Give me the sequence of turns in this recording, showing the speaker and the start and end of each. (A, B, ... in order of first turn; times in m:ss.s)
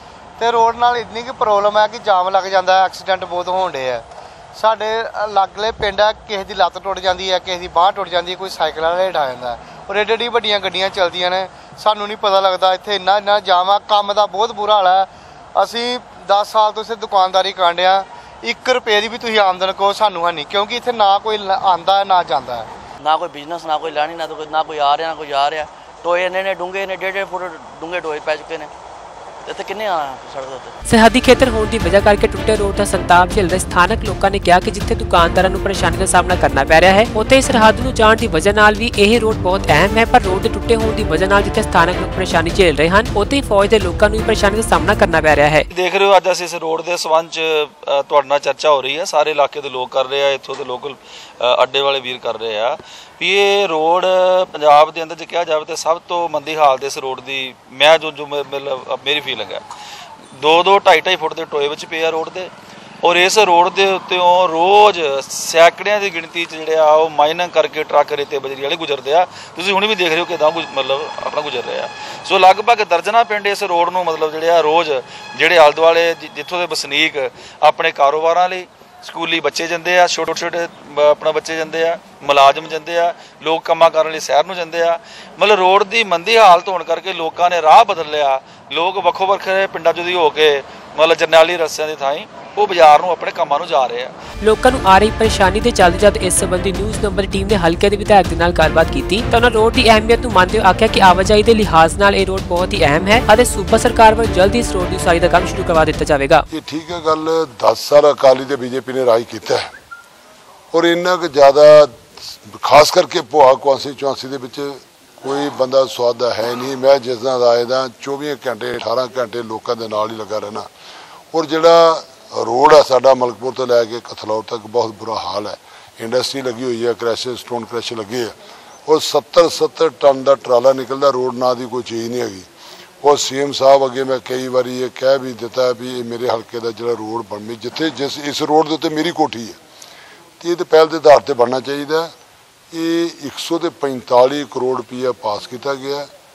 0:00.4-0:04.0 A
0:04.6-0:22.7 A
0:23.0-0:28.7 B
0:29.4-0:30.7 B
0:30.9-0:45.7 C
0:45.7-0:59.6 D
1:00.4-1:02.5 D
1:03.0-1:34.1 D
1:34.4-1:46.4 C
1:46.5-1:49.7 E
1:50.7-2:00.7 E
2:01.3-2:08.3 E
2:08.8-2:12.5 E
2:13.0-2:19.6 E
2:20.4-2:22.1 E
2:22.7-2:26.1 E